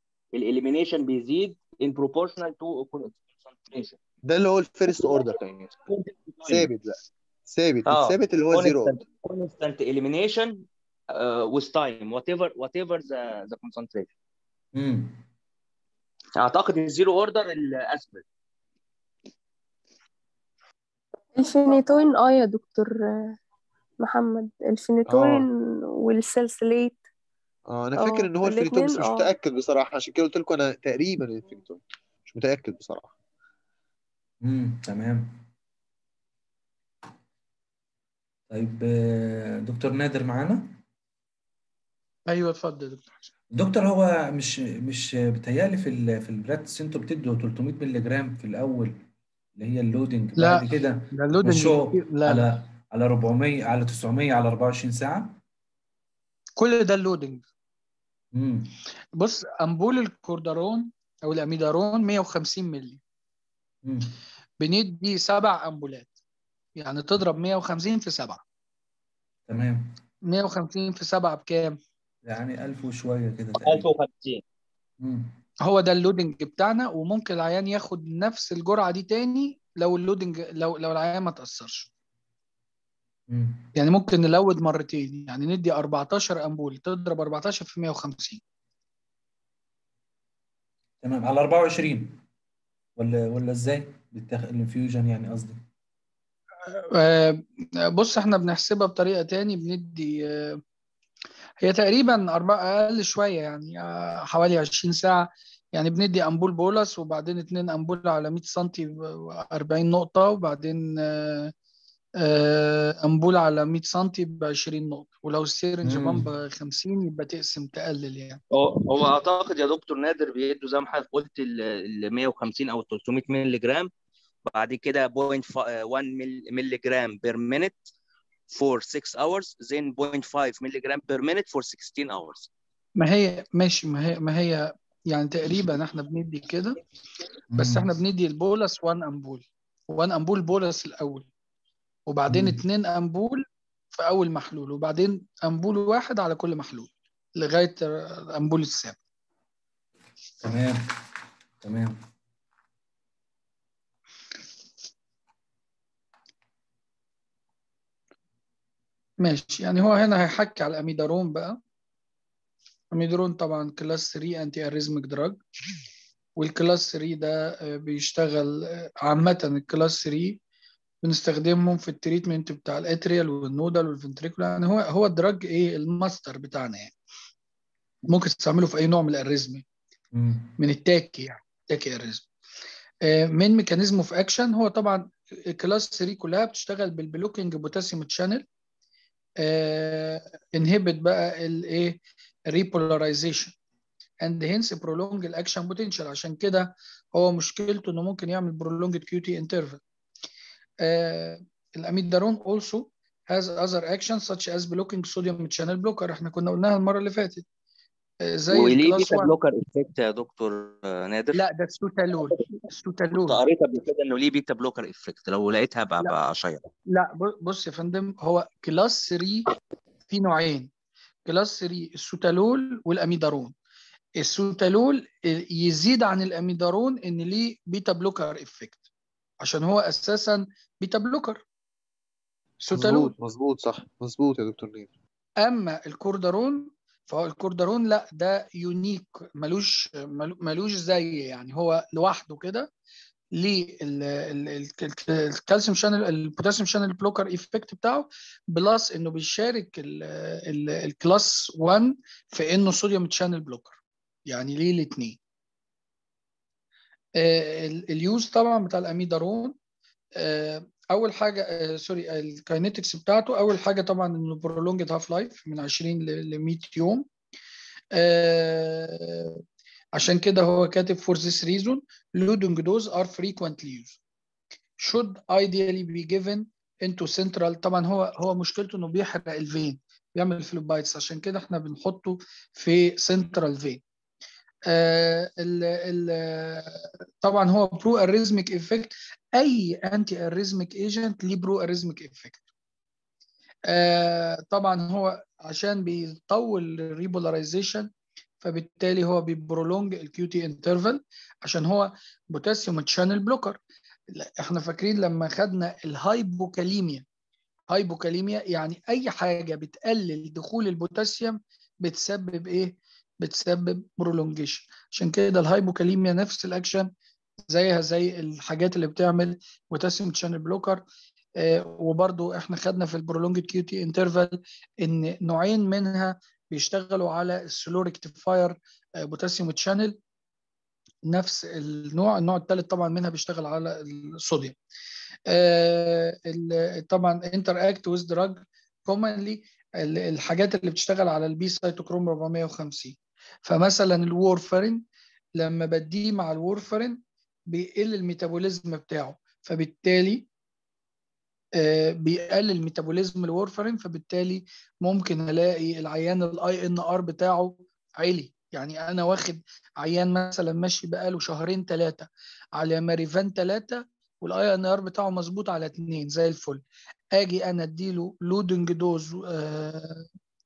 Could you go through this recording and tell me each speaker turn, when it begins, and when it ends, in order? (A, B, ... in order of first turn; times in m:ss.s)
0:00.3-0:04.0 A
0:04.2-0:05.7 B
0:04.9-0:05.3 A
0:05.8-0:06.7 A
0:06.4-0:08.9 B
0:07.8-0:14.1 A
0:14.7-0:15.2 C
0:16.4-0:18.2 A
0:21.3-0:23.3 D
0:24.0-0:27.0 D
0:25.1-0:25.4 B
0:27.7-0:33.1 B
0:28.0-0:29.3 D
0:34.4-0:35.4 C
0:38.5-0:40.8 C
0:42.3-0:43.2 E
0:43.5-0:49.0 C
0:49.6-0:55.4 C
0:50.4-0:52.4 E
0:56.6-0:57.4 E
0:58.3-0:58.7 C
0:59.2-1:03.0 E
1:03.8-1:04.2 C
1:04.6-1:06.1 E
1:06.8-1:08.4 E
1:09.5-1:10.0 C
1:10.3-1:11.8 E
1:12.2-1:13.9 C
1:13.6-1:14.4 A
1:15.0-1:15.4 C
1:15.6-1:21.9 E
1:23.3-1:23.7 C
1:23.7-1:28.4 E
1:31.0-1:32.2 C
1:33.0-1:35.6 C
1:36.7-1:40.6 E
1:41.6-1:51.5 E
1:52.2-1:58.4 E
1:55.8-1:56.3 C
1:58.5-2:03.9 A
2:04.4-2:07.8 A
2:08.5-2:12.5 A
2:13.0-2:16.8 E
2:17.5-2:17.9 C
2:17.6-2:21.3 E
2:22.1-2:29.0 E
2:22.3-2:22.6 C
2:30.4-2:30.8 C
2:31.6-2:32.0 C
2:39.2-2:41.6 E
2:42.9-2:45.4 E
2:46.4-2:50.4 E
2:51.0-2:56.9 E
2:58.1-2:59.6 E
3:00.1-3:00.5 C
3:00.6-3:02.3 E
3:03.0-3:08.4 E
3:09.4-3:13.5 E
3:14.2-3:19.8 E
3:20.8-3:27.4 E
3:28.2-3:29.3 E
3:28.5-3:31.4 A
3:31.3-3:33.4 E
3:33.1-3:36.6 A
3:36.9-3:39.5 E
3:40.1-3:40.7 E
3:41.2-3:43.5 E
3:44.2-3:48.8 E
3:49.4-3:51.4 E
3:52.6-3:53.1 E
3:52.7-3:54.9 B
3:55.4-4:02.7 E
4:03.4-4:15.2 E
4:17.2-4:19.6 E
4:20.2-4:27.1 E
4:27.9-4:29.4 E
4:29.9-4:34.0 E
4:34.8-4:43.8 E
4:44.7-4:52.4 E
4:53.7-4:57.9 E
4:58.4-5:03.6 E
5:04.1-5:07.0 E
5:07.7-5:16.9 E
5:17.5-5:20.8 E
5:21.4-5:30.0 E
5:31.1-5:34.6 E
5:35.3-5:44.8 E
5:45.4-5:50.2 E
5:51.6-6:06.6 E
6:07.1-6:10.0 E